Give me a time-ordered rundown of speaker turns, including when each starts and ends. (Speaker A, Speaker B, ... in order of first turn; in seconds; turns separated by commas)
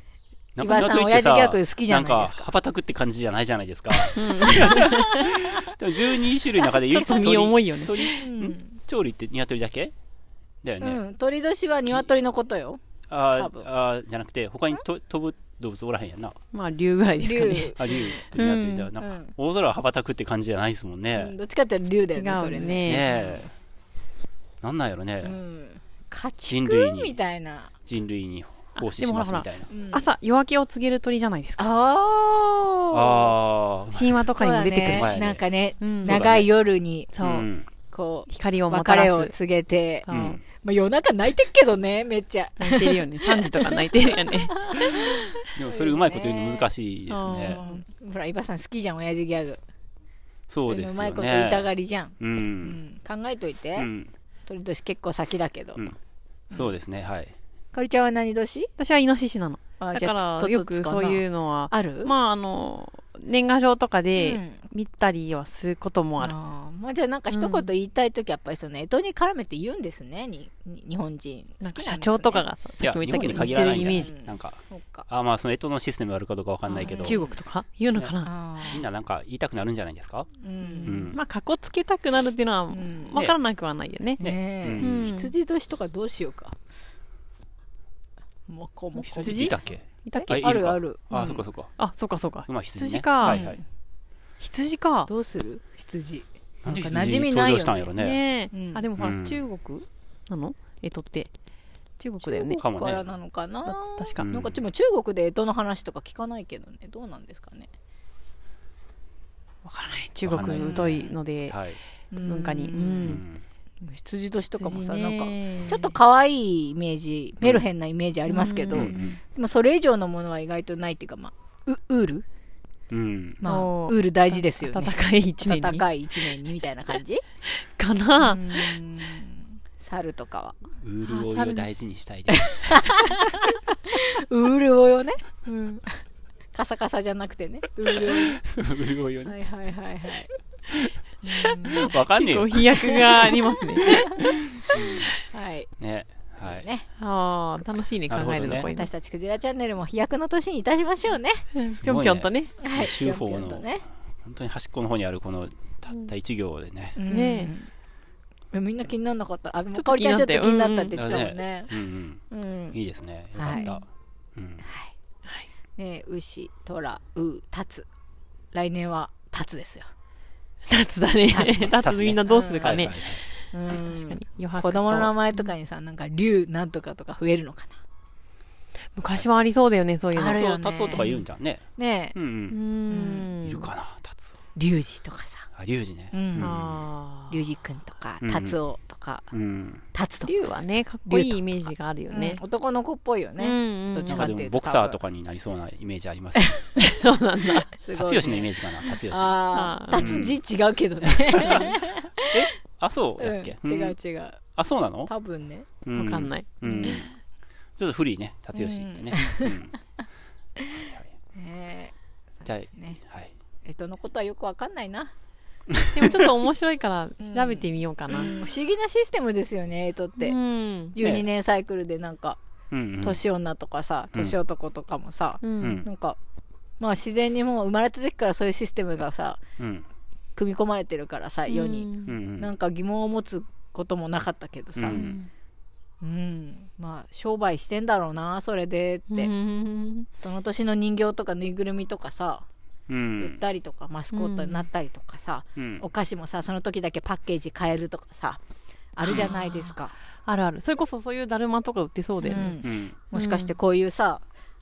Speaker A: 0.6-9.9, Speaker B: 0.6-2.5, Speaker C: 4.2-5.3, Speaker C: 6.6-8.0, Speaker B: 8.0-8.8, Speaker A: 10.6-11.0, Speaker B: 10.8-12.8, Speaker A: 13.1-16.4, Speaker B: 13.4-13.7, Speaker C: 16.5-17.7, Speaker B: 17.2-18.3, Speaker A: 17.8-21.3, Speaker C: 18.3-18.9, Speaker B: 19.0-19.3, Speaker B: 21.2-23.5, Speaker C: 22.1-23.1, Speaker A: 22.9-23.5, Speaker A: 24.6-25.4, Speaker B: 25.2-27.7, Speaker A: 26.5-27.1, Speaker A: 27.8-29.7, Speaker C: 28.8-31.6, Speaker B: 29.7-30.0, Speaker B: 31.6-33.3, Speaker A: 32.9-34.2, Speaker C: 33.9-35.3, Speaker B: 34.4-37.1, Speaker A: 34.9-35.4, Speaker C: 35.8-36.2, Speaker A: 36.0-36.5, Speaker C: 37.1-37.5, Speaker A: 37.2-37.7, Speaker B: 37.9-46.7, Speaker C: 38.3-39.3, Speaker C: 40.1-40.4, Speaker A: 40.1-40.4, Speaker C: 42.6-44.5, Speaker A: 45.5-47.6, Speaker C: 47.1-47.8, Speaker B: 47.5-49.6, Speaker A: 50.5-52.8, Speaker B: 50.7-53.9, Speaker A: 53.8-54.1, Speaker B: 54.5-55.9, Speaker B: 56.5-56.8, Speaker A: 56.5-57.3, Speaker B: 57.7-58.7, Speaker C: 58.8-66.3, Speaker B: 59.8-62.1, Speaker B: 64.2-64.6, Speaker B: 66.2-72.4, Speaker C: 67.3-67.7, Speaker C: 71.6-74.1, Speaker A: 72.8-77.2, Speaker B: 73.3-75.1, Speaker B: 76.7-77.2, Speaker C: 76.7-78.8, Speaker B: 78.2-78.8, Speaker A: 78.7-80.3, Speaker B: 80.4-81.1, Speaker C: 80.6-84.2, Speaker A: 80.8-81.2, Speaker B: 82.7-83.2, Speaker B: 84.2-86.5, Speaker A: 84.2-85.0, Speaker C: 84.8-85.3, Speaker B: 88.5-89.5, Speaker A: 89.0-91.7, Speaker C: 89.0-90.4, Speaker B: 90.2-91.4, Speaker C: 91.1-93.5, Speaker A: 92.5-93.6, Speaker B: 93.2-93.6, Speaker C: 94.4-95.1, Speaker B: 95.1-97.9, Speaker A: 96.6-98.2, Speaker C: 98.0-101.3, Speaker B: 98.5-98.8, Speaker A: 99.0-99.4, Speaker C: 102.0-102.6, Speaker B: 102.3-107.7, Speaker A: 102.5-103.1, Speaker C: 103.6-104.3, Speaker A: 104.2-104.6, Speaker C: 109.6-111.6, Speaker A: 110.2-111.8, Speaker B: 110.5-111.1, Speaker B: 112.1-113.2, Speaker C: 112.2-113.2, Speaker A: 113.0-113.4, Speaker B: 113.8-122.2, Speaker C: 114.6-115.9, Speaker C: 118.3-118.9, Speaker A: 118.7-119.2, Speaker A: 122.9-123.4, Speaker B: 123.4-127.2, Speaker C: 123.4-125.8, Speaker C: 127.5-128.6, Speaker B: 128.2-130.5, Speaker A: 130.8-132.8, Speaker C: 131.0-131.7, Speaker B: 132.5-136.0, Speaker B: 136.5-138.4, Speaker A: 137.8-139.3, Speaker B: 139.2-140.3, Speaker C: 141.2-144.4, Speaker B: 141.4-141.9, Speaker A: 141.7-142.6, Speaker B: 142.9-143.9, Speaker A: 144.7-145.1, Speaker B: 145.2-145.7, Speaker A: 145.8-146.7, Speaker B: 146.4-146.9, Speaker C: 147.0-148.9, Speaker A: 148.1-148.7, Speaker B: 148.6-151.4, Speaker C: 151.5-152.5, Speaker A: 151.7-153.7, Speaker B: 152.6-153.8, Speaker A: 154.2-157.0, Speaker B: 156.9-157.7, Speaker C: 157.1-157.5, Speaker B: 158.5-161.7, Speaker C: 159.7-161.0, Speaker A: 160.9-162.2, Speaker B: 162.3-162.8, Speaker A: 162.7-163.8, Speaker B: 163.3-163.7, Speaker C: 163.5-163.8, Speaker A: 164.3-164.6, Speaker B: 164.6-164.9, Speaker B: 165.8-167.8, Speaker B: 168.5-169.9, Speaker C: 170.7-175.5, Speaker B: 171.3-171.7, Speaker A: 171.6-173.2, Speaker B: 172.2-172.9, Speaker B: 173.5-177.8, Speaker C: 178.9-181.2, Speaker A: 179.1-179.4, Speaker B: 180.1-181.1, Speaker A: 180.3-182.6, Speaker B: 181.8-182.2, Speaker C: 182.5-183.7, Speaker B: 182.9-183.3, Speaker A: 183.4-184.3, Speaker B: 184.5-185.5, Speaker A: 185.5-186.8, Speaker B: 186.1-186.5, Speaker C: 186.4-187.4, Speaker B: 187.3-189.3, Speaker A: 188.2-188.6, Speaker A: 189.3-189.8, Speaker B: 189.9-190.3, Speaker C: 190.2-192.4, Speaker B: 191.1-195.0, Speaker C: 193.4-194.3, Speaker A: 194.1-196.6, Speaker C: 196.8-197.7, Speaker B: 197.8-198.5, Speaker A: 197.9-199.3, Speaker B: 199.1-202.3, Speaker C: 199.5-200.3, Speaker A: 199.9-200.3, Speaker A: 201.3-201.7, Speaker A: 202.3-203.9, Speaker B: 203.2-204.4, Speaker A: 204.5-205.1, Speaker B: 205.1-205.7, Speaker A: 205.8-207.1, Speaker C: 205.9-207.1, Speaker B: 206.6-207.0, Speaker A: 207.8-209.7, Speaker B: 208.5-209.6, Speaker A: 210.8-211.1, Speaker B: 211.3-213.0, Speaker A: 212.4-213.3, Speaker B: 213.6-215.1, Speaker C: 215.9-218.3, Speaker B: 217.2-220.4, Speaker C: 220.2-220.9, Speaker B: 220.9-222.4, Speaker A: 221.0-221.2, Speaker A: 222.7-223.2, Speaker B: 223.0-226.2, Speaker C: 225.4-225.8, Speaker A: 225.6-225.9, Speaker B: 226.8-229.4, Speaker A: 229.6-229.8, Speaker B: 230.3-235.0, Speaker C: 231.5-232.2, Speaker A: 232.1-232.5, Speaker A: 234.8-235.1, Speaker C: 234.9-235.3, Speaker B: 236.0-239.3, Speaker C: 239.1-240.1, Speaker B: 240.2-242.4, Speaker A: 242.9-243.4, Speaker B: 243.2-248.4, Speaker C: 244.1-244.7, Speaker A: 245.6-245.8, Speaker B: 248.9-249.9, Speaker A: 249.0-249.3, Speaker C: 249.1-252.6, Speaker B: 252.2-254.2, Speaker A: 252.6-253.0, Speaker C: 253.1-253.5